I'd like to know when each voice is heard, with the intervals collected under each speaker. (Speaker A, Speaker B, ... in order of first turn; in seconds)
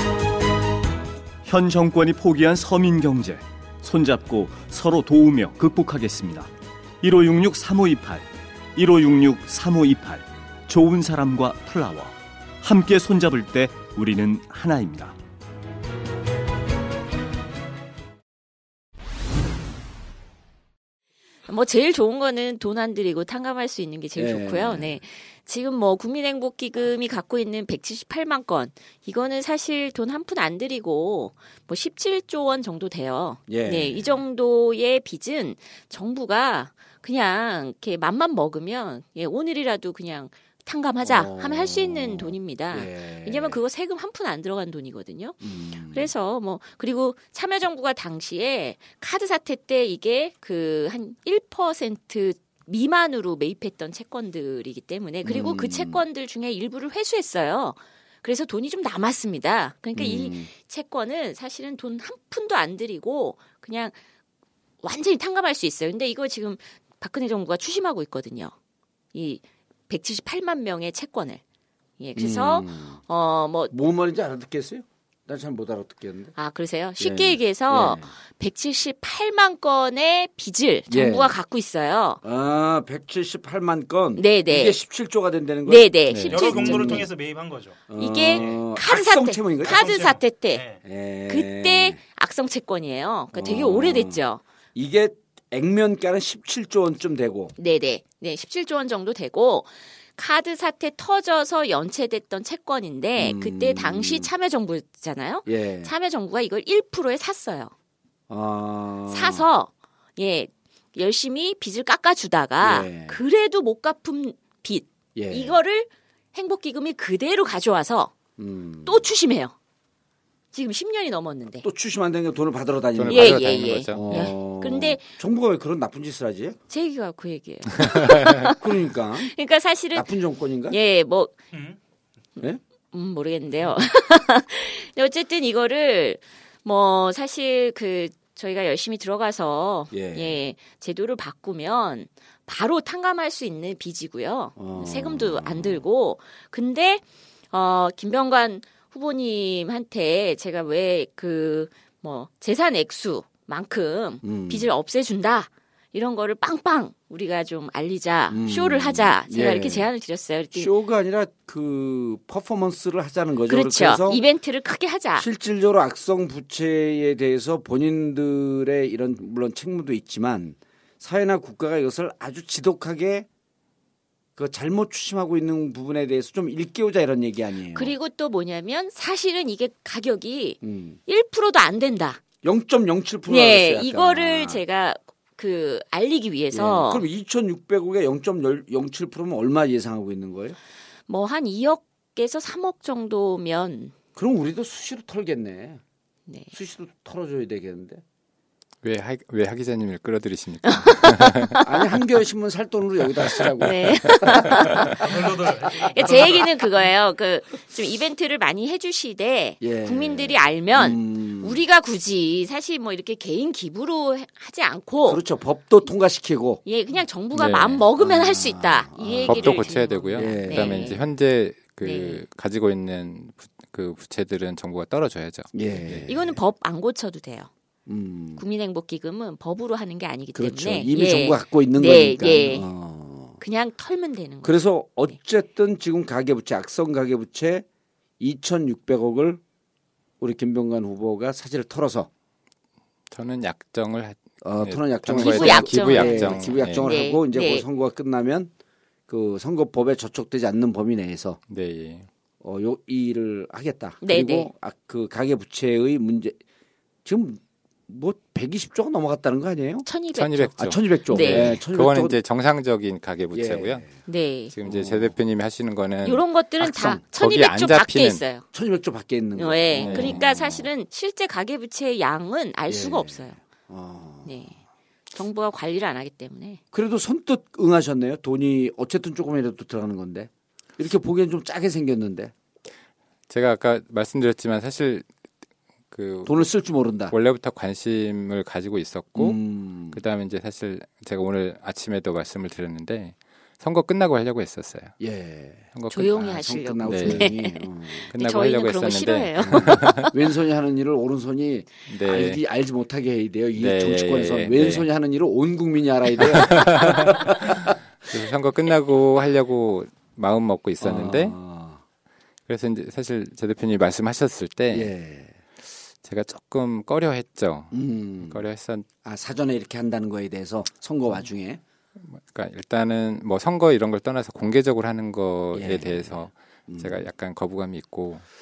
Speaker A: 1.4-6.5, 7.0-15.2
Speaker B: 21.5-64.0, 64.8-68.5, 69.1-71.4, 72.0-73.7, 76.4-82.2, 84.2-84.8, 85.7-87.1, 88.0-90.6, 91.3-94.4, 97.6-107.7, 109.1-118.1, 118.9-119.5, 120.5-121.7, 123.1-125.1, 126.7-128.6, 129.2-130.1, 130.7-131.3, 132.9-160.7, 163.5-165.3, 177.7-182.2, 183.3-187.1, 191.1-193.9, 200.7-201.7, 203.6-205.1, 205.8-215.2, 216.7-221.0, 221.8-222.2, 226.1-227.5, 228.4-232.7, 233.4-234.6, 245.1-247.7, 254.0-254.5, 259.9-261.6, 264.1-264.5, 266.1-268.5, 269.4-273.4, 274.2-274.6, 275.1-276.6, 295.9-300.1
Speaker C: 24.2-24.9, 33.5-34.2, 41.0-43.6, 45.4-46.1, 55.2-56.0, 60.0-60.5, 72.2-73.0, 73.7-76.3, 77.0-78.1, 80.9-81.3, 82.2-87.1, 87.9-89.8, 90.8-92.0, 93.3-94.2, 94.8-97.5, 103.2-104.3, 105.5-105.9, 108.3-109.5, 112.6-113.2, 115.2-115.6, 118.4-119.1, 121.6-126.6, 128.4-129.3, 129.9-130.8, 139.9-140.4, 144.6-145.8, 154.2-154.7, 158.3-159.9, 160.6-164.2, 165.2-173.3, 174.4-177.9, 180.6-181.0, 182.4-184.6, 186.5-190.6, 194.2-195.8, 196.5-198.0, 201.6-205.7, 209.6-211.6, 215.1-216.6, 218.0-220.9, 225.5-226.4, 227.9-228.4, 230.3-233.4, 234.4-237.7, 238.2-239.4, 240.2-242.1, 244.4-248.5, 249.1-251.4, 252.4-256.4, 257.1-259.9, 260.6-262.2, 263.3-264.0, 264.6-265.1, 266.8-267.0, 268.5-270.7, 272.7-274.5, 276.7-282.3, 286.3-287.1, 289.1-290.0, 295.0-298.1, 299.4-307.8, 310.8-311.8, 314.7-315.4, 317.7-318.4, 319.0-321.6, 325.5-327.1
Speaker D: 86.1-86.5, 123.0-124.3, 198.8-201.7, 217.3-217.9, 219.3-226.1, 243.1-247.0, 251.5-252.1, 260.1-263.9, 264.5-268.2, 269.8-270.2, 283.3-285.1, 285.9-286.5, 287.1-294.9, 295.8-296.3, 296.8-297.4, 298.1-300.1, 301.9-302.4, 303.6-304.9, 306.2-311.4, 312.5-314.9, 316.0-318.9, 322.1-328.2
Speaker E: 86.3-87.8, 88.3-88.6, 89.6-90.8, 131.5-131.8, 205.0-206.8